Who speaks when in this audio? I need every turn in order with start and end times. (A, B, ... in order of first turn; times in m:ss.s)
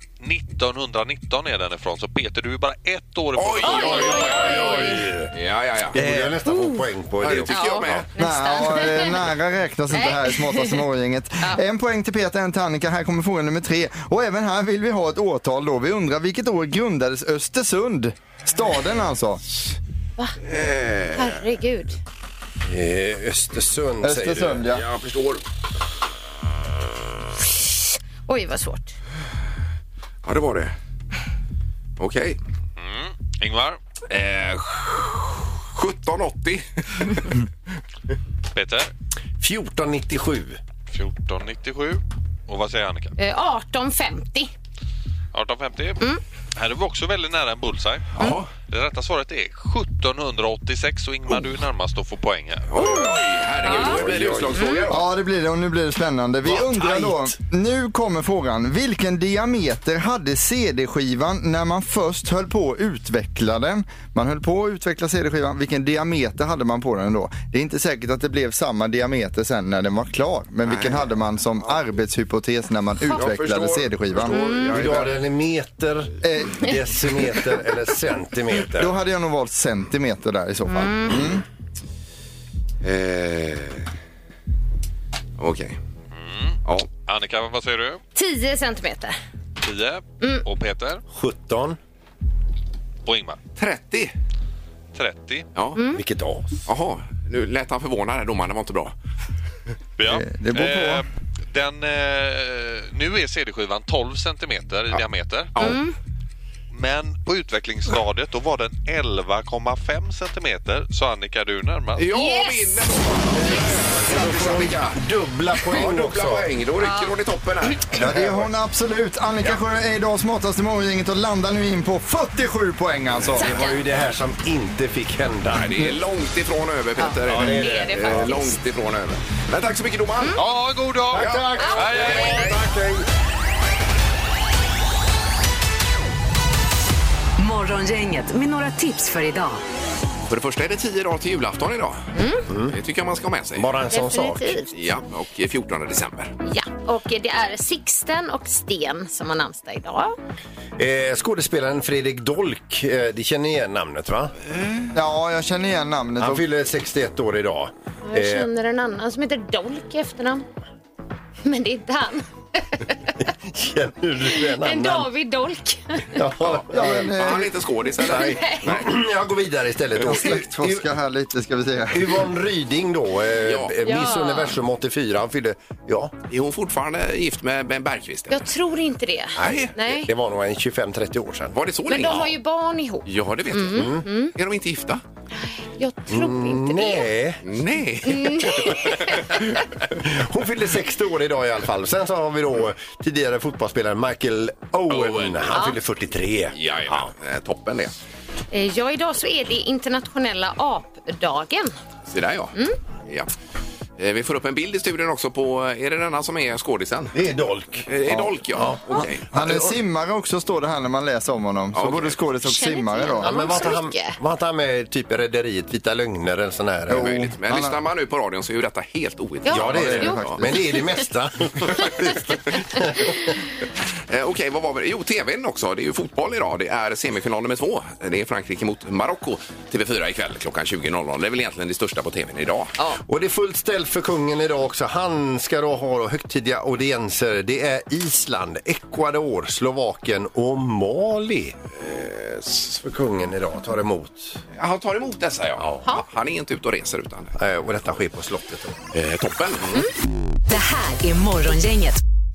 0:00.2-0:04.2 A
0:03.4-0:06.0 B
0:03.6-0:05.0 C
0:03.9-0:05.3 D
0:05.9-0:08.0 D
0:06.0-0:06.4 E
0:06.4-0:06.8 C
0:07.2-0:08.1 B
0:07.5-0:09.2 C
0:08.2-0:19.4 E
0:09.9-0:10.8 C
0:20.4-0:21.4 B
0:21.1-0:22.0 C
0:22.6-0:24.6 D
0:24.0-0:24.8 E
0:24.7-0:25.4 B
0:27.5-0:28.9 C
0:30.2-0:30.7 B
0:32.0-0:32.4 B
0:32.8-0:33.8 A
0:34.1-0:37.4 B
0:38.5-0:38.9 A
0:39.4-0:40.6 D
0:40.9-0:43.1 A
0:43.2-0:44.5 C
0:45.3-0:46.0 A
0:46.6-0:53.1 A
0:48.2-0:48.5 B
0:52.7-0:55.0 B
0:53.6-0:54.0 C
0:53.6-0:54.9 D
0:54.6-0:54.8 C
0:54.9-1:14.4 E
0:56.5-0:57.3 D
1:10.6-1:11.0 B
1:13.1-1:15.3 B
1:14.3-1:14.7 C
1:14.4-1:18.9 D
1:16.2-1:16.7 E
1:18.8-1:21.4 E
1:20.7-1:21.2 C
1:22.8-1:23.9 B
1:25.4-1:25.8 B
1:26.1-1:28.0 A
1:28.1-1:29.2 C
1:29.6-1:31.0 A
1:31.1-1:31.8 D
1:33.0-1:33.4 A
1:33.6-1:34.1 B
1:34.9-1:35.4 A
1:35.8-1:36.0 C
1:35.9-1:36.6 D
1:36.6-1:38.9 B
1:40.0-1:45.8 A
1:40.0-1:41.0 E
1:45.6-1:45.9 C
1:46.7-1:52.1 A
1:52.0-1:55.0 B
1:52.1-1:52.8 C
1:53.4-1:56.5 D
1:55.6-1:58.0 B
1:56.8-1:57.1 C
1:57.9-2:03.6 E
1:57.9-1:58.4 D
2:03.3-2:06.0 D
2:03.4-2:03.8 C
2:05.5-2:10.4 B
2:07.0-2:08.6 C
2:07.3-2:08.3 D
2:10.4-2:12.6 A
2:11.1-2:13.0 D
2:11.1-2:12.4 B
2:11.6-2:12.5 C
2:17.4-2:19.6 F
2:20.3-2:22.1 B
2:22.1-2:22.4 C
2:22.5-2:22.8 D
2:22.6-2:23.7 B
2:23.6-2:24.6 D
2:23.9-2:24.7 C
2:24.7-2:26.3 B
2:26.4-2:30.2 C
2:30.8-2:34.3 D
2:34.9-2:36.4 E
2:36.2-2:38.5 D
2:38.0-2:40.4 C
2:41.4-2:43.1 C
2:43.2-2:45.1 D
2:44.3-2:46.2 C
2:46.1-2:47.4 D
2:46.4-2:48.9 B
2:46.7-2:47.6 E
2:48.0-2:50.9 D
2:48.0-2:48.7 C
2:50.0-2:52.3 E
2:51.9-2:56.1 D
2:53.4-2:53.8 B
2:53.8-2:54.6 C
2:56.3-2:58.4 B
2:58.3-3:00.1 C
2:59.4-3:01.6 D
2:59.4-2:59.7 B
3:01.5-3:02.3 B
3:01.9-3:04.3 C
3:03.0-3:05.0 B
3:03.7-3:04.0 D
3:05.6-3:07.1 C
3:06.1-3:07.4 D
3:07.4-3:09.3 B
3:08.0-3:09.4 C
3:09.9-3:17.1 D
3:14.9-3:15.7 B
3:16.5-3:17.9 B
3:18.5-3:21.7 C
3:22.1-3:22.5 B
3:24.0-3:27.2 B
3:27.1-3:27.9 D
3:27.9-3:29.6 B
3:29.0-3:33.6 E
3:31.7-3:32.2 B
3:32.4-3:34.2 C
3:33.2-3:37.2 D
3:36.9-3:37.8 E
3:36.9-3:40.4 B
3:39.4-3:41.0 C
3:39.5-3:43.4 D
3:39.6-3:40.5 E
3:44.1-3:52.8 B
3:53.0-4:01.6 D
4:01.8-4:02.8 B
4:02.8-4:04.4 D
4:04.6-4:07.4 B
4:05.6-4:05.9 D
4:07.4-4:08.8 D
4:08.9-4:09.8 B
4:10.5-4:12.0 F